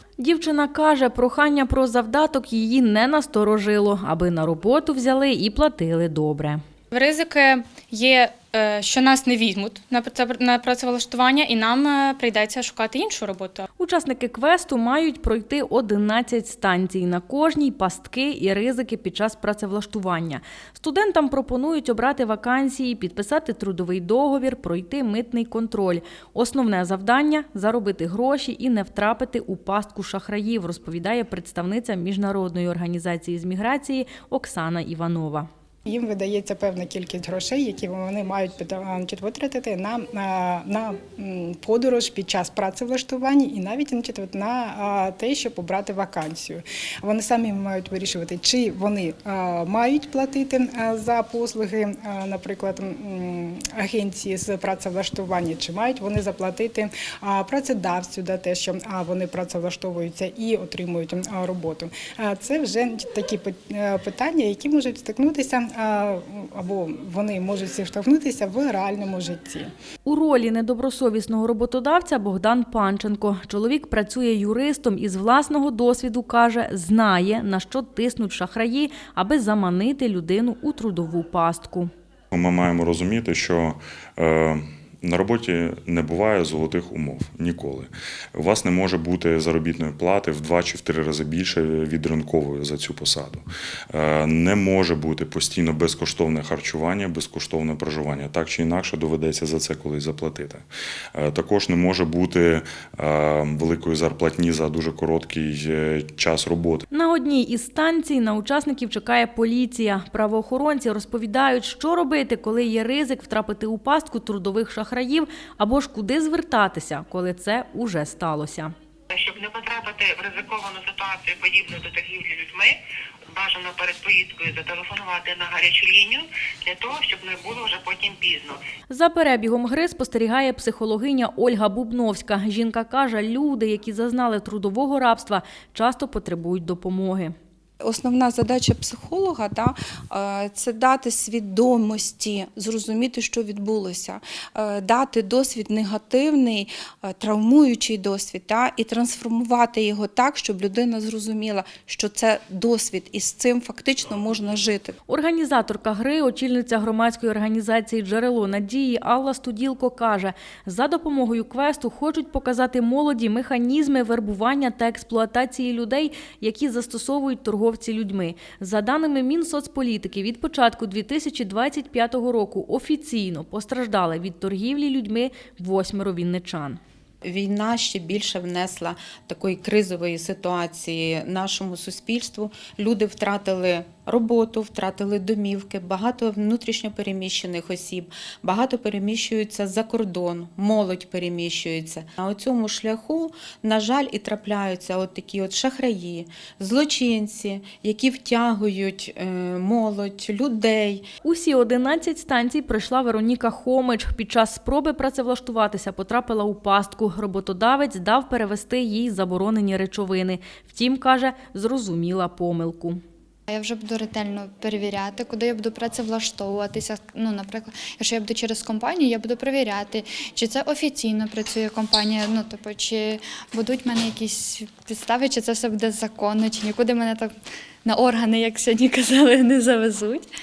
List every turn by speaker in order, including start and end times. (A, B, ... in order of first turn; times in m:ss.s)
0:00.2-0:06.6 A
0:06.9-0:13.6 B
0:13.8-0:35.5 A
0:35.9-1:09.7 C
1:10.1-1:21.9 A
1:22.3-1:46.8 D
1:46.9-1:58.7 A
1:59.1-2:02.8 E
2:03.3-2:08.6 E
2:08.9-2:17.3 A
2:17.8-2:34.9 F
2:35.1-2:56.8 A
2:57.2-3:21.0 G
3:21.2-3:33.0 A
3:33.5-3:50.3 H